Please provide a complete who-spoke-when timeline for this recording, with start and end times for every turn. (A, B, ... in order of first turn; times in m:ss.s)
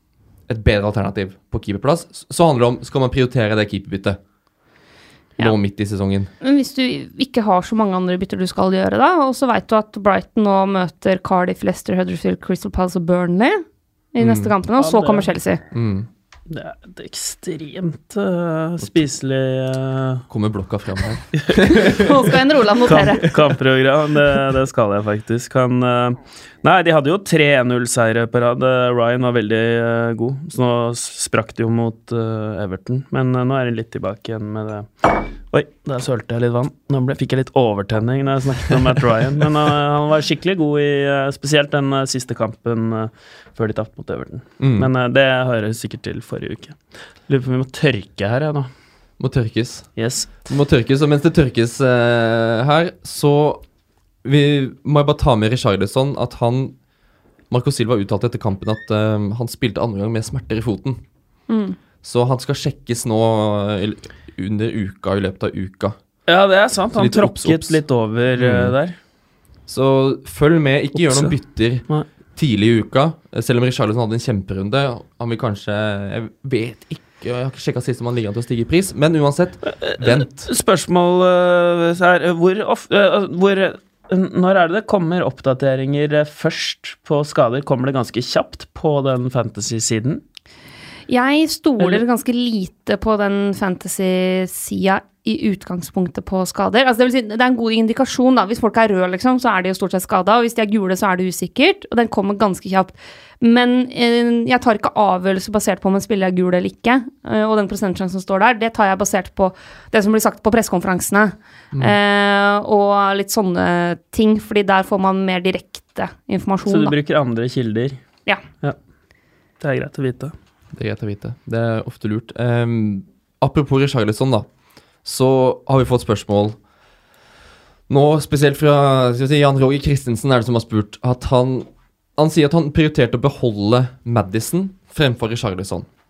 0:00.5-0:04.2 A
0:05.4-0:06.3 A
0:06.4-0:15.6 B
0:14.2-0:14.5 A
0:14.8-0:15.3 C
0:15.7-0:16.1 A
0:16.5-0:20.2 C
0:20.3-0:22.1 A
0:21.3-0:21.8 C
0:21.9-0:23.3 B
0:22.8-0:48.7 C
0:44.6-0:44.9 A
0:49.2-0:53.6 A
0:50.0-0:50.5 C
0:54.2-0:56.8 A
0:57.5-1:01.0 A
1:01.5-1:01.8 B
1:02.0-1:06.0 A
1:06.3-1:09.0 C
1:06.9-1:07.8 A
1:08.4-1:08.7 A
1:09.7-1:20.5 A
1:10.9-1:11.3 C
1:19.7-1:30.2 C
1:31.1-1:56.9 B
1:56.6-1:58.0 C
1:59.6-2:00.3 C
2:00.7-2:04.4 A
2:05.0-2:06.6 A
2:07.9-2:15.9 A